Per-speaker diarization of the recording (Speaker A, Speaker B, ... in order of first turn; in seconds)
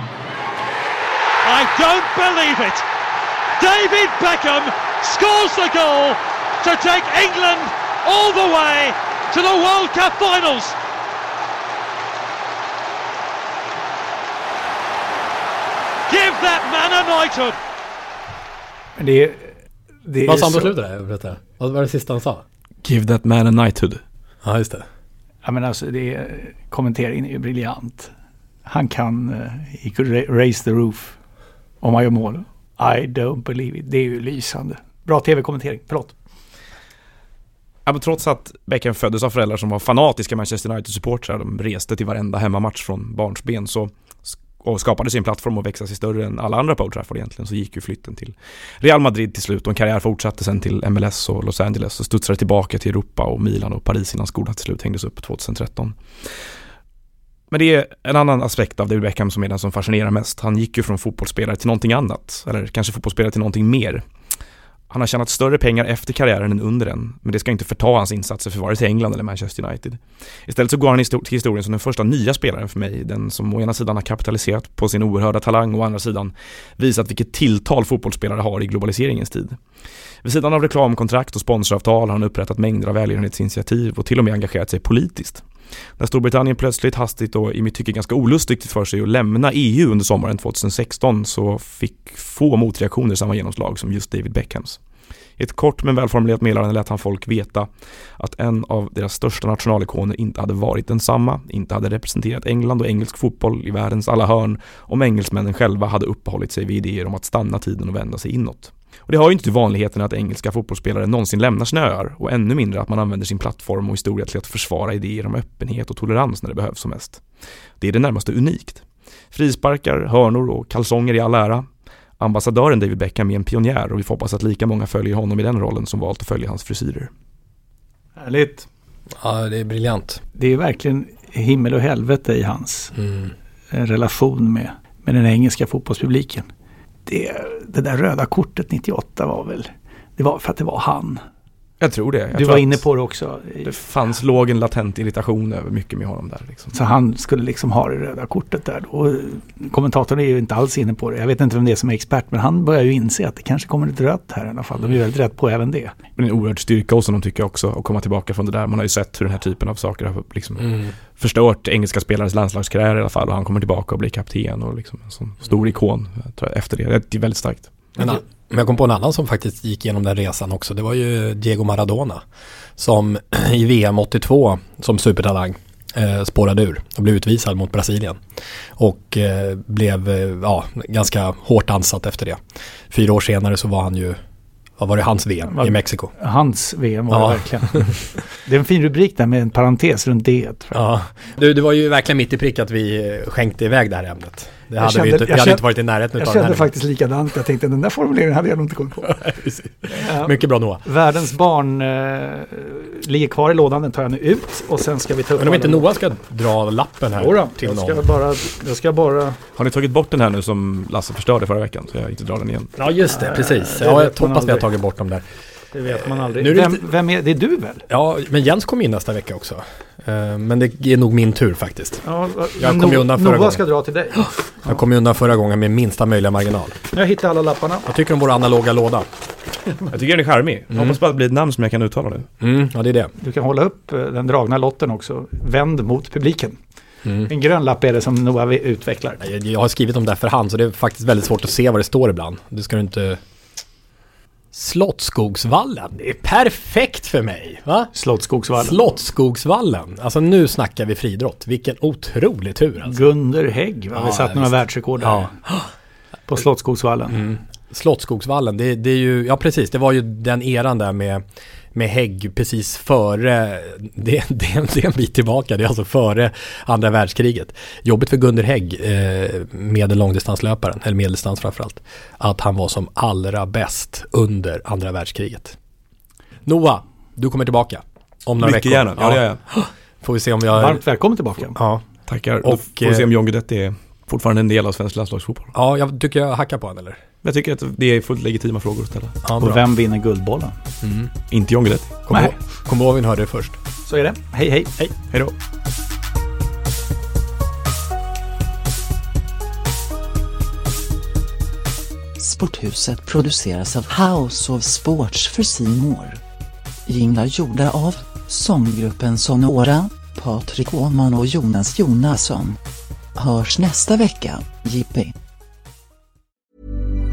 Speaker A: 1.4-2.8, 3.6-10.7, 16.1-17.6
Speaker B: 19.0-20.7, 25.4-28.1, 28.6-31.1, 31.8-36.1, 128.2-128.7, 130.4-132.9, 133.7-136.4, 137.1-141.2, 142.3-143.7, 146.7-155.9, 185.5-190.8, 194.8-195.7, 196.2-199.2, 199.9-205.9, 207.2-209.4, 213.1-214.7, 215.7-217.8, 222.1-224.7, 226.9-227.8, 233.2-236.6, 237.3-239.2, 247.9-248.8, 252.8-255.3, 256.3-257.2, 280.6-281.6, 289.4-290.6, 293.9-294.7
Speaker C: 20.2-22.4, 24.4-24.9, 129.2-130.2, 132.9-133.3, 160.6-160.9, 168.0-172.2, 172.8-178.2, 178.8-182.4, 182.9-184.2, 184.8-186.1, 187.1-187.9, 190.7-196.7, 199.1-200.8, 205.4-208.0, 212.8-215.2, 215.8-216.9, 217.9-222.0, 222.6-223.6, 224.6-226.8, 227.9-229.1, 230.7-231.0, 232.4-233.1, 237.1-237.3, 239.2-243.2, 244.5-247.9, 248.6-253.1, 253.9-255.7, 257.1-275.6, 276.4-280.8, 281.5-281.8, 282.4-283.1, 285.5-287.0, 289.2-289.6, 290.8-291.1, 292.1-293.6
Speaker D: 22.8-24.0, 37.9-56.0, 57.5-64.0, 64.9-79.6, 80.2-85.4, 86.0-94.8, 95.4-117.2, 117.8-121.7, 122.2-127.1, 141.8-142.8, 143.6-146.7, 156.2-167.7, 209.6-212.7, 229.9-232.3, 278.4-279.4, 282.1-285.5, 287.2-289.2, 291.3-292.0
Speaker E: 302.2-306.2, 306.9-312.6, 313.1-315.1